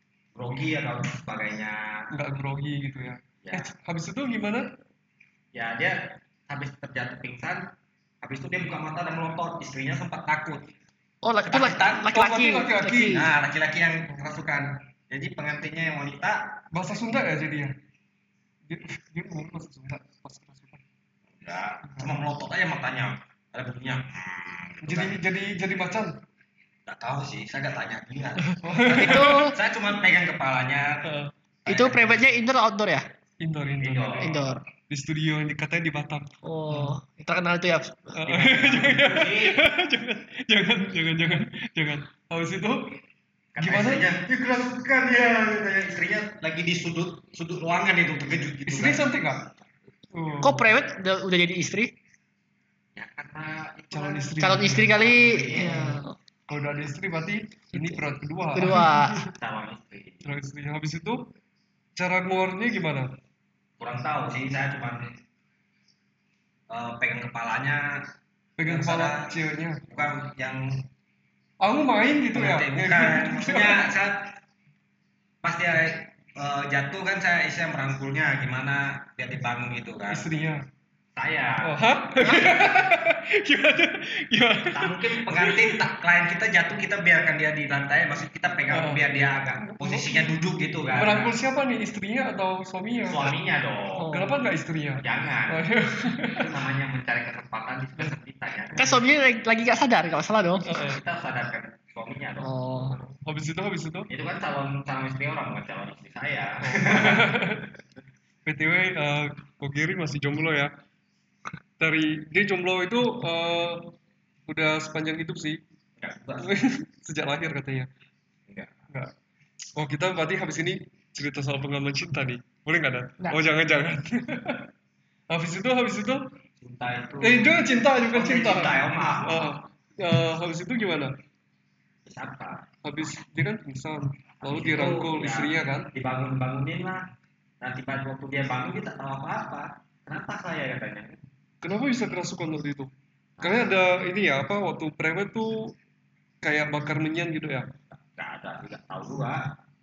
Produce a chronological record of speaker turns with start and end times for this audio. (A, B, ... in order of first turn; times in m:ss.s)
0:00.3-0:02.1 A
0:02.1-0:04.7 B
0:03.4-0:03.7 A
0:05.5-0:07.7 A
0:08.2-0:10.7 A
0:11.2-0:13.3 C
0:11.5-0:12.1 A
0:12.1-0:13.3 B
0:13.1-0:16.6 A
0:16.7-0:17.7 B
0:18.7-0:20.8 B
0:21.3-0:25.2 A
0:24.8-0:26.2 B
0:26.8-0:31.1 A
0:28.5-0:29.4 B
0:28.9-0:29.5 C
0:31.0-0:31.3 B
0:31.6-0:32.2 A
0:31.7-0:33.0 C
0:33.4-0:37.0 B
0:33.8-0:34.3 A
0:34.2-0:34.6 C
0:36.4-0:38.2 C
0:38.1-0:43.0 B
0:38.2-0:39.8 A
0:43.5-0:49.0 A
0:43.6-0:44.1 B
0:48.7-0:49.5 B
0:50.1-0:50.7 B
0:50.4-0:51.9 C
0:52.9-0:56.0 A
0:53.9-0:55.0 B
0:54.4-0:56.1 C
0:55.5-0:59.3 B
0:57.7-0:58.0 C
0:58.5-0:59.2 C
0:59.2-1:00.2 A
1:00.2-1:01.3 B
1:02.0-1:03.1 B
1:03.8-1:05.2 A
1:06.7-1:08.0 A
1:08.6-1:09.8 B
1:08.7-1:10.9 A
1:11.6-1:13.9 B
1:12.3-1:14.3 A
1:15.4-1:20.3 A
1:20.1-1:20.6 B
1:21.2-1:22.8 A
1:21.6-1:25.8 B
1:24.7-1:31.3 A
1:28.7-1:29.0 B
1:29.6-1:30.4 B
1:30.9-1:33.3 B
1:33.0-1:34.3 A
1:34.0-1:34.4 C
1:34.1-1:36.5 B
1:35.0-1:39.0 A
1:38.7-1:40.7 C
1:40.6-1:41.0 B
1:40.7-1:42.5 A
1:42.4-1:43.0 C
1:42.9-1:44.1 B
1:44.1-1:47.6 A
1:46.6-1:47.7 B
1:48.4-1:50.7 B
1:51.8-1:54.0 B
1:54.5-1:55.6 B
1:56.0-1:56.5 A
1:56.4-1:57.9 B
1:58.5-1:58.8 A
1:59.8-2:04.7 B
2:05.3-2:06.3 B
2:06.6-2:07.5 A
2:07.2-2:11.1 B
2:08.1-2:09.7 A
2:12.0-2:12.7 A
2:12.8-2:15.9 B
2:14.4-2:17.0 A
2:17.6-2:21.2 A
2:21.6-2:22.9 B
2:23.4-2:23.8 A
2:23.4-2:25.8 B
2:26.4-2:27.7 B
2:27.9-2:29.6 A